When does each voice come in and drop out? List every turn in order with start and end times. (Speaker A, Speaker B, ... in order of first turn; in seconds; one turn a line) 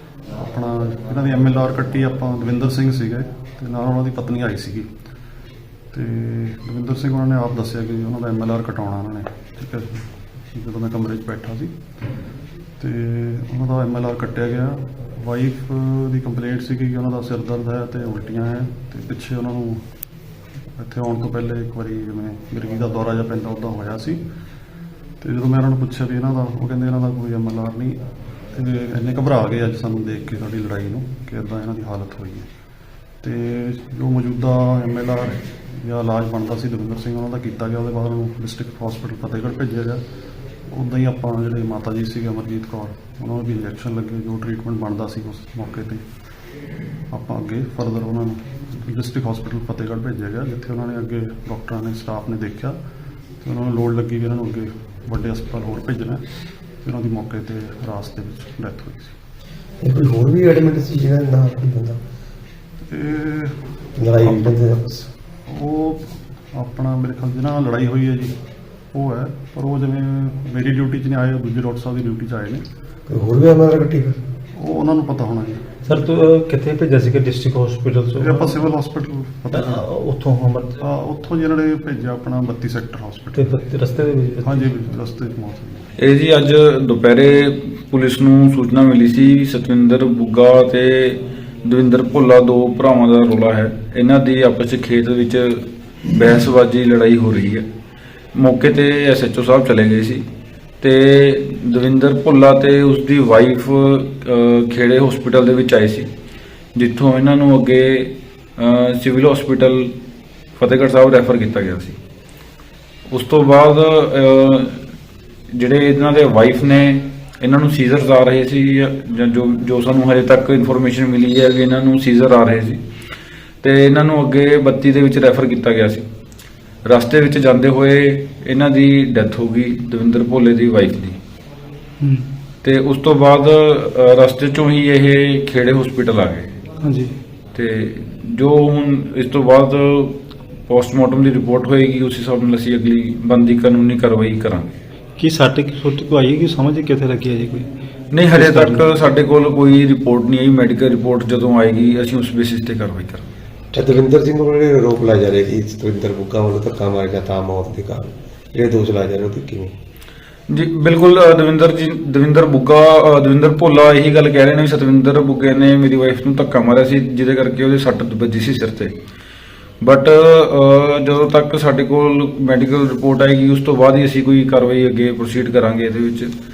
Speaker A: 0.3-4.9
Speaker A: 5.9-11.7
Speaker A: 12.8-19.8
Speaker A: 20.8-24.2
Speaker A: 25.2-28.0
Speaker A: 28.5-32.5
Speaker A: 33.2-40.0
Speaker A: 40.7-46.0
Speaker A: 47.1-52.8
Speaker A: 53.4-56.2
Speaker A: 56.8-59.1
Speaker B: 59.8-62.0
Speaker A: 62.9-64.6
Speaker B: 64.0-65.1
Speaker A: 65.5-68.4
Speaker A: 68.9-72.6
Speaker B: 73.1-74.2
Speaker A: 74.5-75.6
Speaker C: 75.8-78.6
Speaker A: 78.2-79.8
Speaker C: 79.5-80.8
Speaker A: 80.8-83.5
Speaker C: 83.3-84.6
Speaker A: 84.4-85.9
Speaker D: 86.0-97.6
Speaker D: 98.3-100.2
Speaker D: 100.8-106.1
Speaker D: 106.7-109.9
Speaker D: 110.6-112.0
Speaker D: 113.1-114.8
Speaker D: 115.5-122.8
Speaker D: 123.6-126.0
Speaker D: 126.8-131.2
Speaker C: 132.0-132.2
Speaker D: 132.6-136.5
Speaker C: 136.8-137.1
Speaker D: 137.5-140.2
Speaker D: 140.7-144.7
Speaker C: 145.2-147.7
Speaker D: 148.1-153.2
Speaker C: 148.3-148.8
Speaker B: 153.7-159.7
Speaker D: 160.5-168.9
Speaker D: 169.8-176.3